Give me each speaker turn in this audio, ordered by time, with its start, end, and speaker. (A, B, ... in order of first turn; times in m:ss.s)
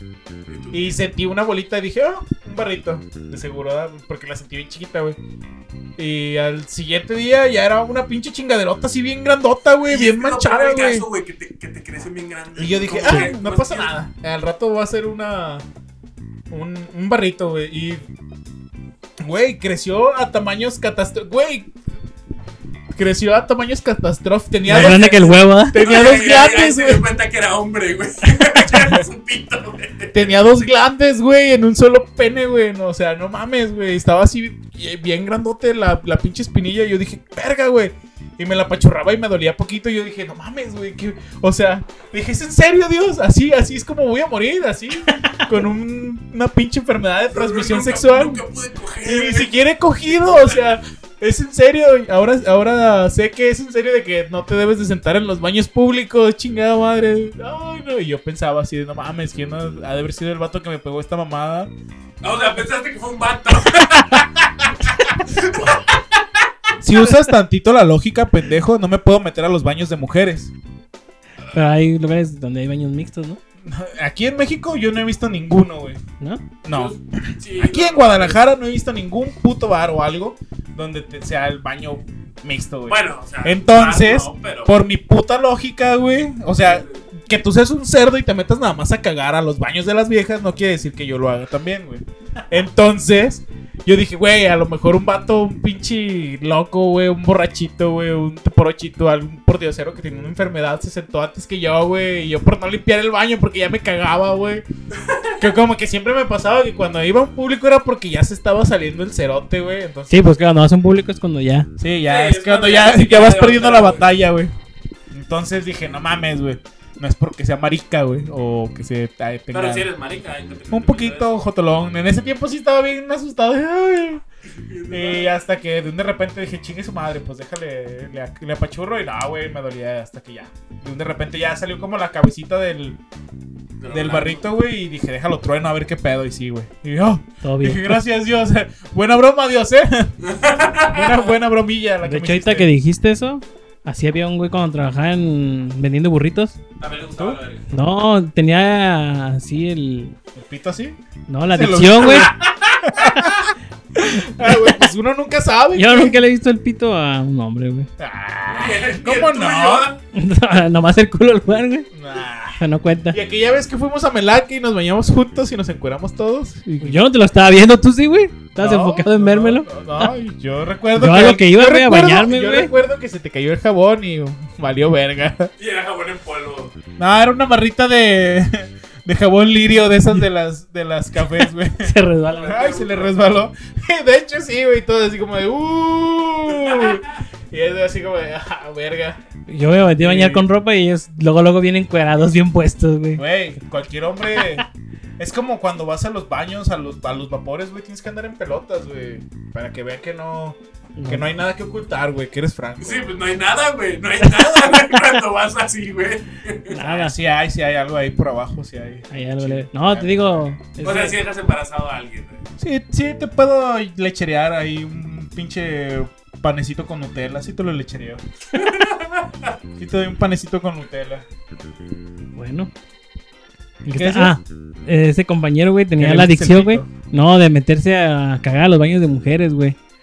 0:00.5-0:01.0 A
0:00.7-0:05.2 B
0:06.0-0:11.1 B
0:09.9-0:13.9 A
0:12.6-0:15.6 B
0:16.5-0:18.0 B
0:19.2-0:21.7 B
0:22.9-0:27.0 B
0:24.6-0:25.8 C
0:24.8-0:30.5 A
0:30.1-0:48.4 B
0:47.3-0:49.5 A
0:49.0-1:01.7 B
0:50.0-0:50.8 A
1:02.2-1:06.0 A
1:06.8-1:10.5 B
1:11.5-1:13.4 C
1:13.6-1:16.0 B
1:16.2-1:16.4 C
1:16.6-1:44.6 B
1:16.7-1:18.4 A
1:22.9-1:24.8 A
1:26.6-1:27.0 A
1:44.9-1:45.4 A
1:45.4-1:50.3 B
1:50.1-1:51.7 C
1:51.8-1:54.5 B
1:52.0-1:54.2 A
1:55.1-1:59.9 B
1:59.5-2:01.4 A
2:00.7-2:04.2 B
2:04.5-2:05.4 A
2:04.9-2:13.0 B
2:13.8-2:14.5 A
2:13.9-2:20.1 B
2:17.4-2:18.0 C
2:20.2-2:21.3 A
2:20.9-2:22.7 B
2:22.0-2:26.6 C
2:26.8-2:27.7 A
2:27.7-2:30.1 C
2:30.4-2:31.0 B
2:31.3-2:32.3 C
2:31.5-2:36.2 B
2:32.1-2:32.8 A
2:34.4-2:34.9 C
2:35.7-2:37.9 C
2:38.0-2:39.9 B
2:38.5-2:40.0 A
2:40.1-2:41.9 C
2:41.9-2:47.0 B
2:42.6-2:43.2 C
2:46.8-2:50.1 C
2:48.6-2:55.5 B
2:51.0-2:52.7 C
2:55.6-2:56.7 A
2:57.0-3:01.9 B
3:01.4-3:02.6 C
3:02.3-3:03.2 A
3:02.4-3:09.2 B
3:06.6-3:07.0 A
3:09.5-3:13.2 C
3:10.0-3:10.4 B
3:13.2-3:14.6 B
3:14.4-3:14.6 C
3:15.2-3:23.2 B
3:21.0-3:21.2 C
3:22.8-3:26.8 A
3:26.7-3:27.2 C
3:26.8-3:30.6 B
3:29.1-3:31.2 C
3:30.8-3:32.5 A
3:32.6-3:38.2 B
3:38.5-3:39.5 A
3:39.8-3:41.2 B
3:42.3-3:42.7 C
3:43.8-3:49.8 C
3:43.9-3:44.4 B
3:46.0-3:46.9 B